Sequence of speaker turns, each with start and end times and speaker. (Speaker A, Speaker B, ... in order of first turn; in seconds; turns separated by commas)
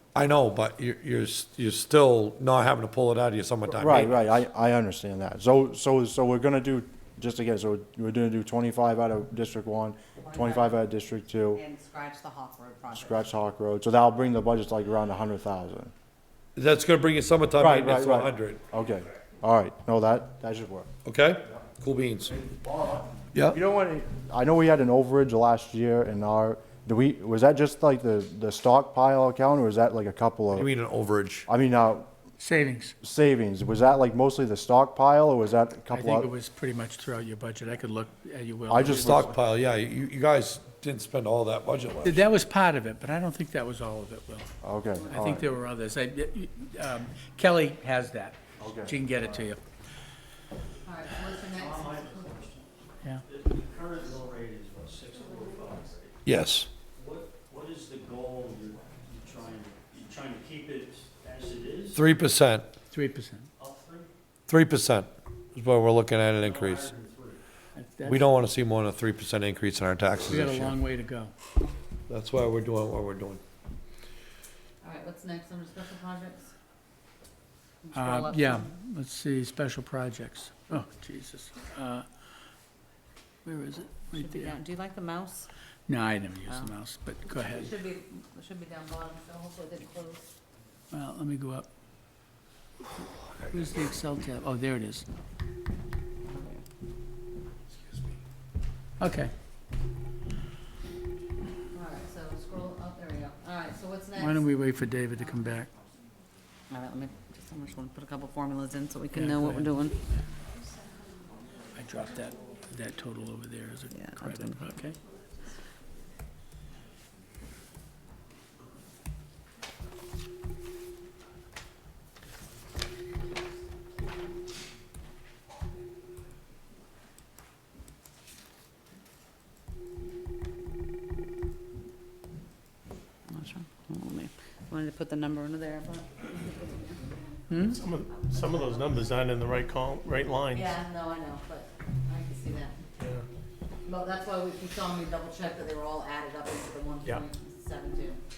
Speaker A: 0.1-4.2, Speaker B: 3.8-11.6, Speaker C: 10.2-10.8, Speaker C: 11.5-13.3, Speaker B: 12.9-15.9, Speaker A: 16.6-18.6, Speaker B: 17.6-20.9, Speaker A: 21.1-22.4, Speaker B: 22.3-30.7, Speaker A: 30.5-31.5, Speaker B: 31.5-32.1, Speaker D: 32.4-32.9, Speaker B: 33.0-36.3, Speaker D: 35.9-39.2, Speaker B: 38.7-39.4, Speaker A: 39.0-42.2, Speaker D: 42.0-44.5, Speaker B: 44.6-45.5, Speaker D: 45.1-49.6, Speaker B: 48.6-49.2, Speaker C: 50.8-52.6, Speaker E: 51.4-52.7, Speaker E: 53.2-56.2, Speaker A: 56.2-56.7, Speaker E: 56.9-62.0, Speaker A: 61.9-62.7, Speaker D: 62.9-63.5, Speaker E: 63.6-64.1, Speaker A: 64.5-66.9, Speaker E: 66.4-67.4, Speaker D: 67.8-68.4, Speaker A: 68.1-70.8, Speaker D: 70.3-71.3, Speaker A: 72.1-73.4, Speaker C: 74.8-76.5, Speaker C: 77.9-78.7, Speaker D: 77.9-82.1, Speaker D: 83.5-84.6, Speaker C: 84.1-85.5, Speaker D: 85.9-87.7, Speaker C: 86.5-86.7, Speaker C: 87.3-90.3, Speaker D: 90.9-91.7, Speaker D: 93.4-95.1, Speaker C: 96.2-96.6, Speaker D: 99.0-99.3, Speaker C: 101.7-104.5, Speaker D: 104.2-105.7, Speaker C: 105.2-105.5, Speaker C: 106.7-110.1, Speaker D: 109.1-109.8, Speaker D: 111.8-115.0, Speaker C: 113.9-114.9, Speaker C: 133.3-137.2, Speaker D: 137.5-137.8, Speaker F: 137.7-140.8, Speaker C: 138.1-139.2, Speaker C: 140.5-142.8, Speaker F: 143.0-143.3, Speaker C: 143.8-148.2